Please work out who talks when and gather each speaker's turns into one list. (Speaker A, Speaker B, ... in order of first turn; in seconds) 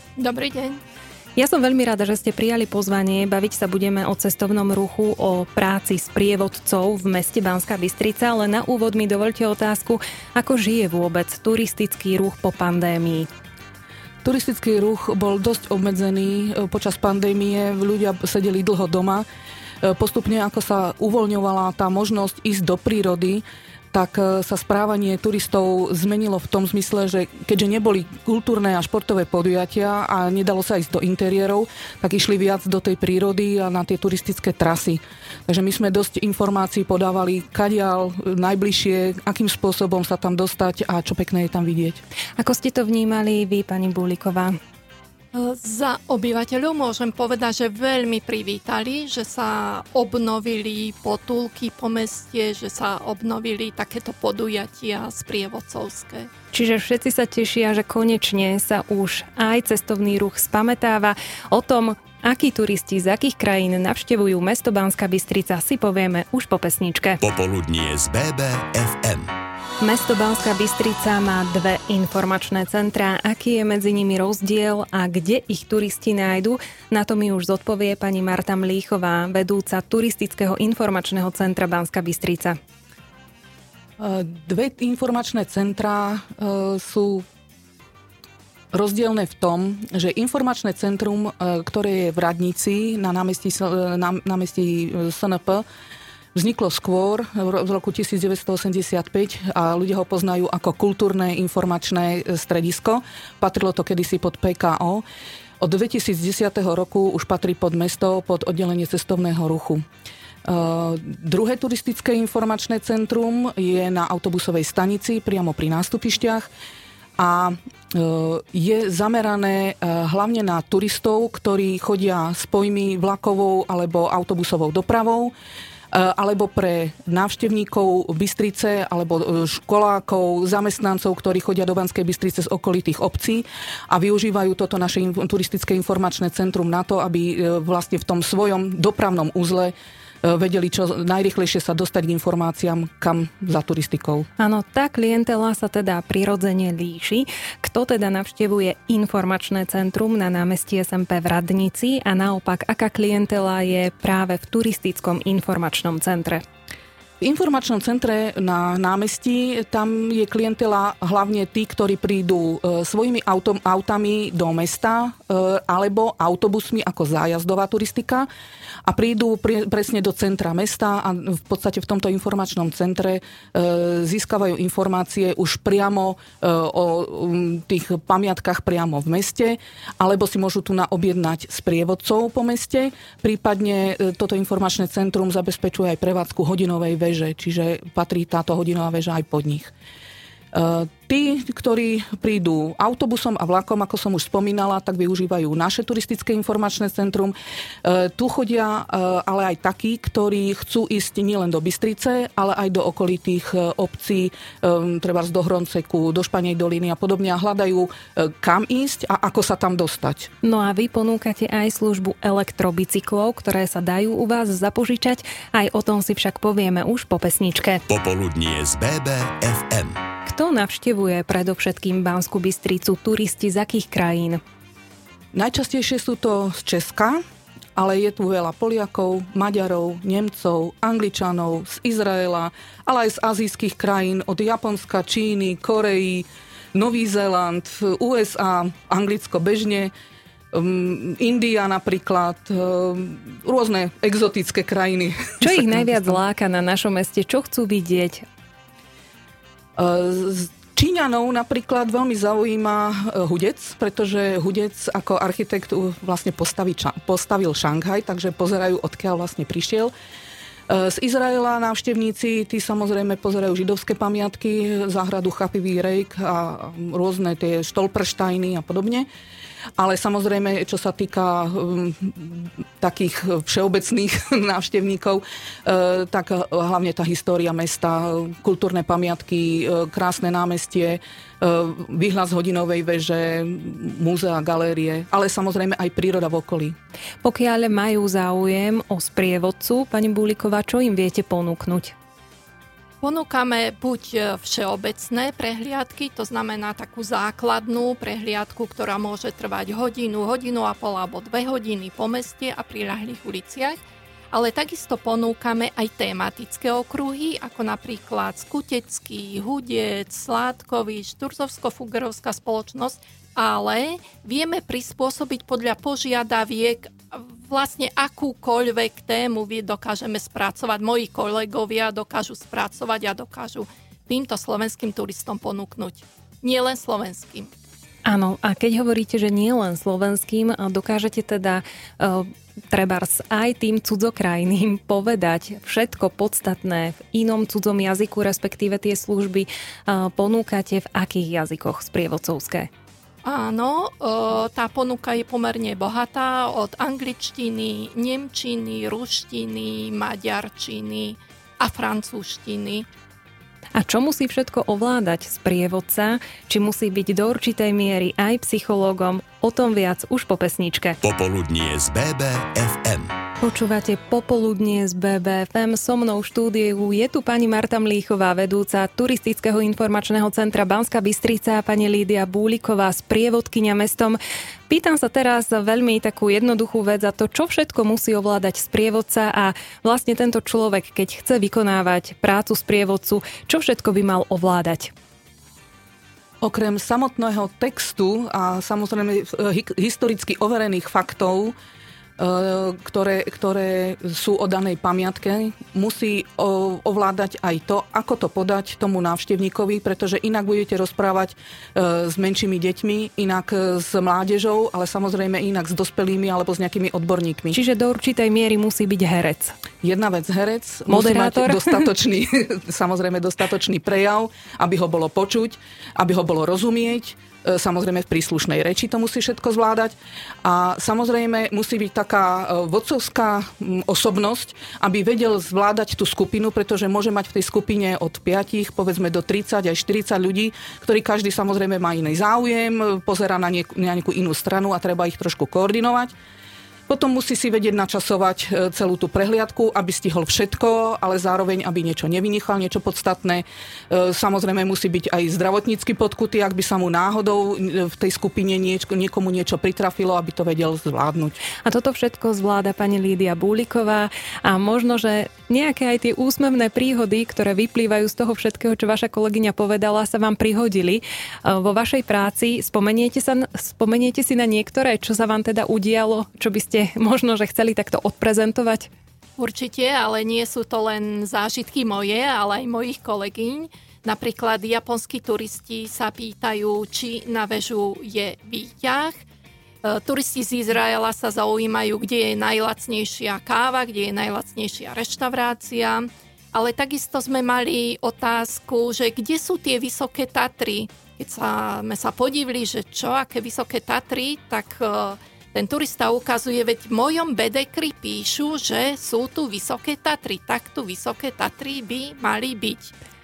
Speaker A: 0.2-0.8, 45.3-56.3, 293.0-303.8, 304.3-327.5, 343.2-352.9, 469.4-479.2, 479.8-502.9
Speaker B: 1.4-13.3, 42.4-44.6, 56.5-67.2, 69.8-82.6, 144.4-156.4, 210.4-217.8, 220.2-224.4, 245.4-248.2, 287.2-291.9, 328.0-342.7, 353.7-361.0, 363.4-374.2, 374.7-384.9, 407.5-409.6, 410.9-411.8, 451.6-468.9
Speaker C: 14.2-19.2, 19.8-42.0, 84.0-87.2, 88.7-95.6, 96.3-105.0, 105.6-109.8, 110.4-116.5, 117.2-125.3, 125.9-144.3, 157.2-168.3, 168.8-189.7, 190.5-210.3, 225.3-227.2, 227.8-239.9, 240.5-246.2, 249.8-259.9, 260.7-269.1, 269.8-286.7, 386.4-391.5, 392.2-407.6, 409.8-436.1, 436.9-451.4
Speaker D: 67.2-69.3, 217.9-220.0, 361.0-363.1